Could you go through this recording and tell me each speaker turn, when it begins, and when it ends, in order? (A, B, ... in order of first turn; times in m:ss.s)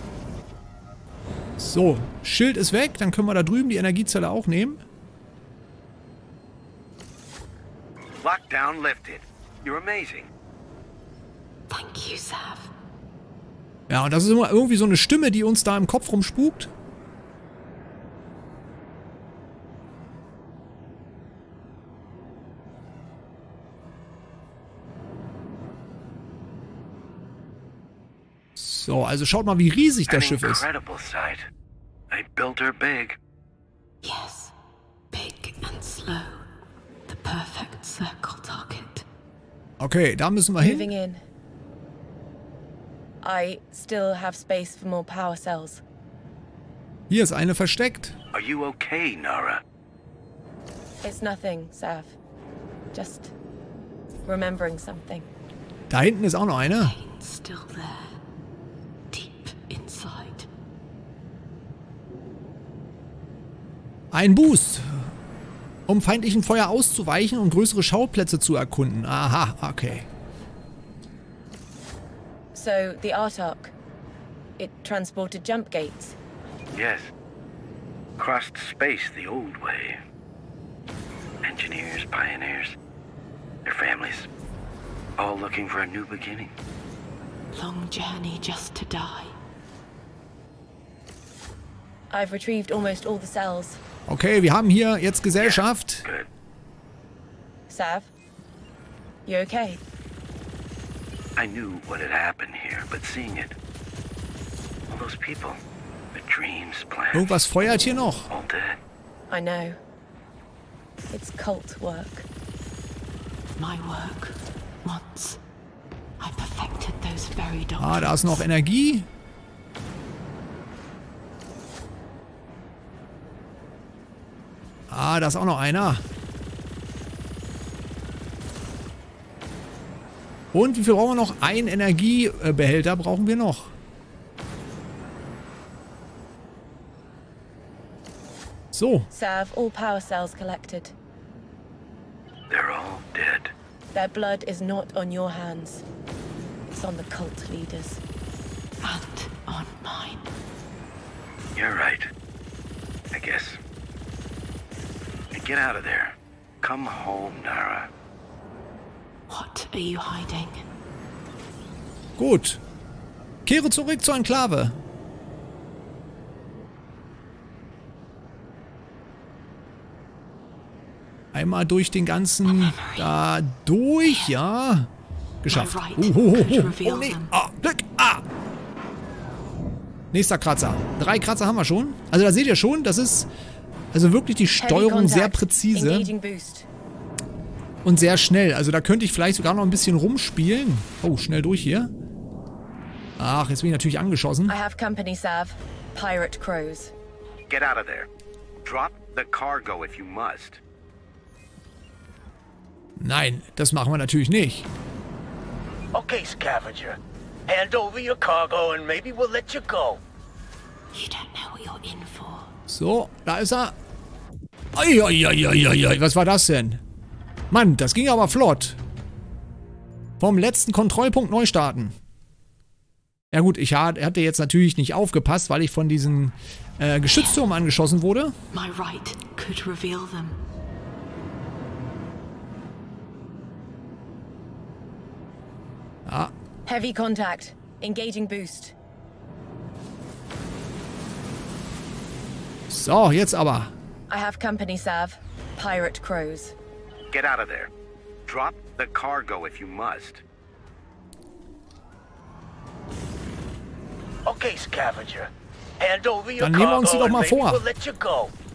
0:01.6-0:04.8 A
0:08.2-0:10.3 B
0:11.7-0:12.7 C
0:13.9-0:16.7 A
0:28.6-0:30.6 A
0:30.1-0:31.5 B
0:32.1-0:33.2 B
0:34.0-0:34.5 C
0:35.1-0:36.5 C
0:37.1-0:39.0 C
0:39.8-0:40.9 A
0:40.6-0:41.2 D
0:43.2-0:45.8 D
0:47.1-0:48.2 A
0:48.3-0:49.6 B
0:51.0-0:52.2 D
0:52.9-0:53.3 D
0:54.2-0:55.3 D
0:55.9-0:56.9 A
0:56.8-0:58.2 C
0:59.1-1:00.5 C
1:04.1-1:05.1 A
1:05.9-1:10.1 A
1:12.5-1:13.7 D
1:14.6-1:16.2 D
1:16.7-1:17.1 B
1:18.2-1:20.0 B
1:21.4-1:22.8 B
1:23.6-1:24.3 B
1:25.2-1:26.5 B
1:27.5-1:29.3 C
1:32.1-1:33.8 D
1:34.1-1:36.1 A
1:35.4-1:36.3 B
1:37.7-1:38.1 D
1:39.2-1:39.8 D
1:41.4-1:43.5 B
1:44.9-1:45.6 B
1:46.1-1:47.4 B
1:47.1-1:48.3 A
1:48.3-1:48.8 B
1:49.3-1:49.8 D
1:51.1-1:52.3 D
1:53.6-1:55.4 C
1:56.2-1:58.4 C
1:57.8-1:59.1 A
2:04.9-2:06.0 A
2:10.5-2:13.7 A
2:18.7-2:19.1 A
2:19.1-2:20.9 D
2:22.5-2:23.5 B
2:23.9-2:25.8 D
2:26.7-2:28.0 D
2:28.8-2:30.3 C
2:31.6-2:32.1 B
2:33.1-2:33.6 B
2:35.3-2:37.9 B
2:39.3-2:40.6 C
2:42.2-2:42.6 A
2:43.4-2:44.8 A
2:51.3-2:54.9 A
2:52.4-2:53.1 C
2:54.0-2:54.3 C
2:55.4-2:58.2 A
2:55.5-2:57.3 C
3:00.1-3:03.3 A
3:03.9-3:06.1 A
3:04.6-3:06.7 D
3:07.8-3:11.9 A
3:13.2-3:14.5 A
3:14.5-3:16.9 D
3:17.5-3:18.1 B
3:18.6-3:20.6 B
3:23.0-3:24.7 A
3:25.9-3:30.0 E
3:30.9-3:32.5 C
3:32.7-3:33.7 A
3:34.7-3:36.8 A
3:37.5-3:38.8 A
3:40.2-3:42.0 A
3:43.3-3:48.4 A
3:47.1-3:47.4 C
3:48.5-3:50.4 C
3:56.0-3:56.3 A
3:56.6-3:58.7 D
4:02.7-4:03.7 A
4:04.1-4:06.6 D
4:07.1-4:07.7 B
4:08.2-4:10.2 B
4:14.2-4:18.3 E
4:16.4-4:17.6 A